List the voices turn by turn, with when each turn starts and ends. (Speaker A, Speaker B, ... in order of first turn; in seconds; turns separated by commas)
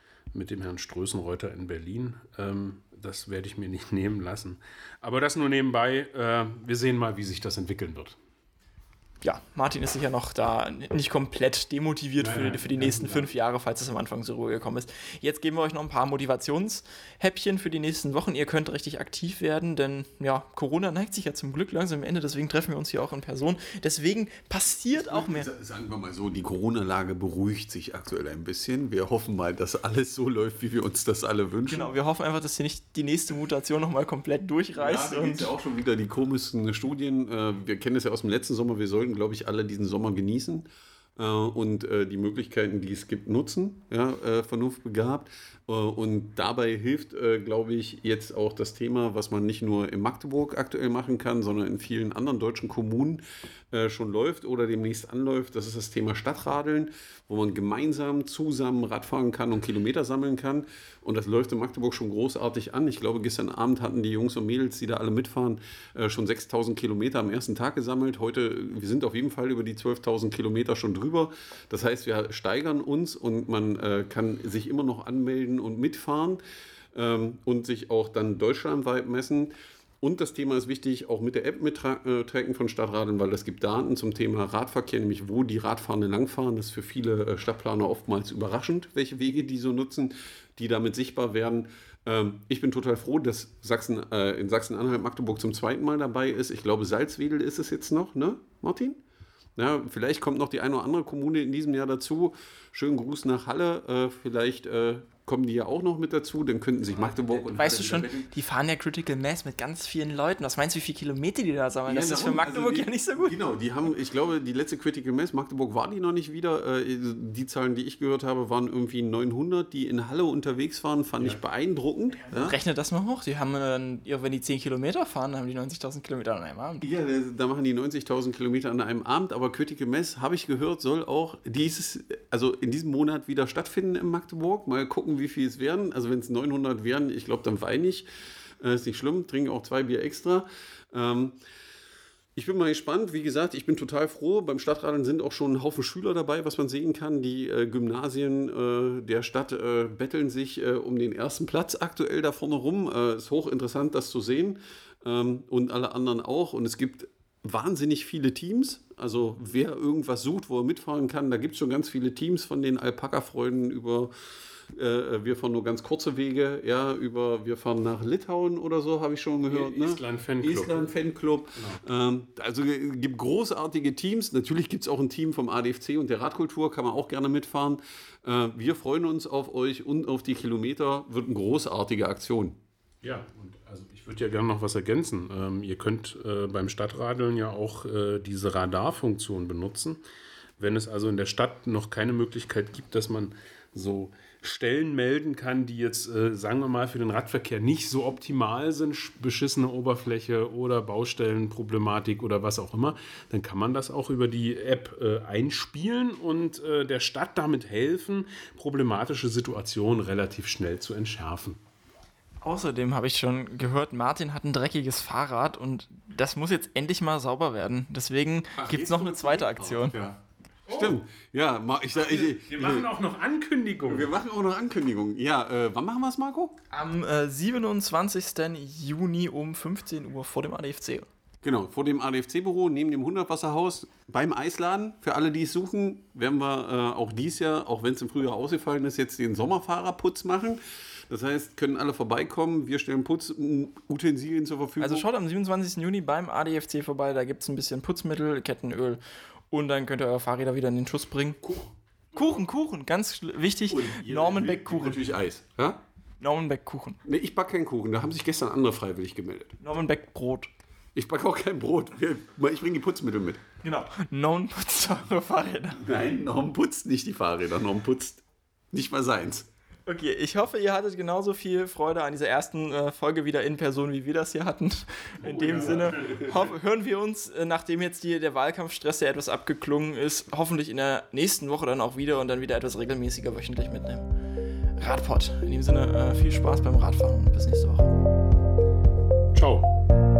Speaker A: 0.3-8.2, Speaker B: 9.2-25.5, Speaker A: 12.2-13.3, Speaker C: 24.9-31.9, Speaker B: 31.7-35.5, Speaker C: 34.7-76.4, Speaker C: 76.9-99.0, Speaker C: 99.5-108.3, Speaker B: 107.5-113.4, Speaker C: 111.9-122.5, Speaker B: 122.2-126.9, Speaker C: 126.8-138.0, Speaker C: 138.6-141.4, Speaker C: 142.3-164.1, Speaker C: 164.7-182.6, Speaker A: 169.5-170.9, Speaker A: 183.0-190.0, Speaker A: 190.6-211.6, Speaker B: 212.4-219.9, Speaker C: 218.6-220.2, Speaker A: 220.7-221.0, Speaker C: 220.7-222.9, Speaker A: 221.9-224.1, Speaker C: 223.8-226.6, Speaker B: 226.7-231.1, Speaker C: 231.4-245.1, Speaker B: 244.8-251.4, Speaker B: 252.1-255.0, Speaker C: 253.7-255.8, Speaker B: 256.2-257.0, Speaker C: 257.0-259.6, Speaker B: 259.6-260.5, Speaker C: 260.9-263.4, Speaker B: 263.6-265.8, Speaker C: 265.8-269.5, Speaker B: 269.9-284.1, Speaker A: 275.2-276.3, Speaker B: 284.8-287.9, Speaker A: 289.3-289.7